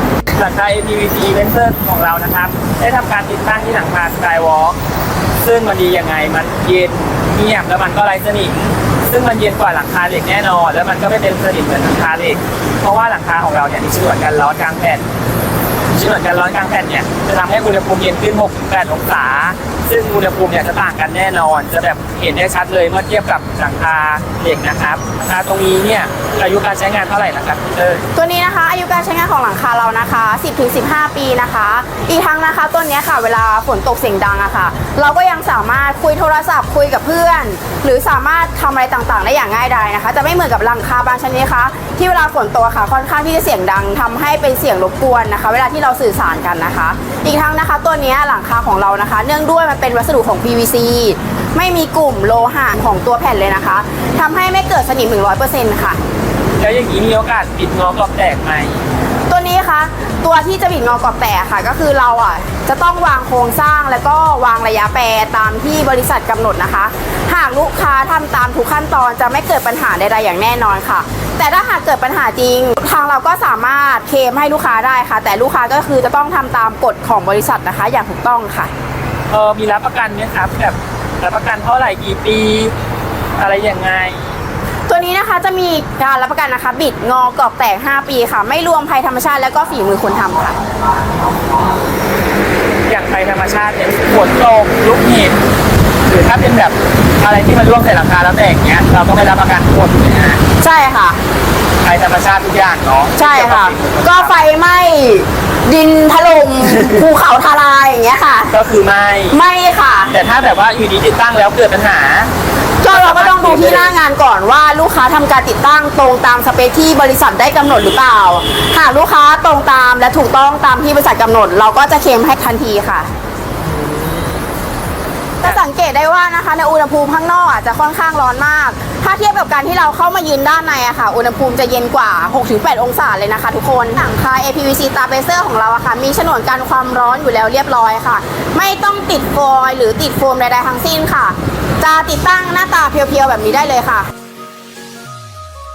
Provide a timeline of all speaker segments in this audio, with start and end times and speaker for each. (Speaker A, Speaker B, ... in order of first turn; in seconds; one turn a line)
Speaker A: 0.3-4.8
Speaker A: 5.4-8.5
Speaker A: 9.1-15.0
Speaker A: 15.9-28.0
Speaker B: 28.1-56.0
Speaker A: 56.6-58.8
Speaker B: 59.3-78.7
Speaker A: 79.3-82.7
Speaker A: 83.4-84.3
Speaker B: 84.9-90.6
Speaker A: 92.9-95.4
Speaker A: 96.1-100.4
Speaker B: 100.6-101.2
Speaker A: 101.8-104.4
Speaker B: 103.2-108.6
Speaker A: 108.5-109.4
Speaker B: 109.3-110.2
Speaker A: 110.1-112.3
Speaker B: 112.8-123.1
Speaker A: 112.9-114.0
Speaker A: 123.7-124.4
Speaker B: 125.4-144.1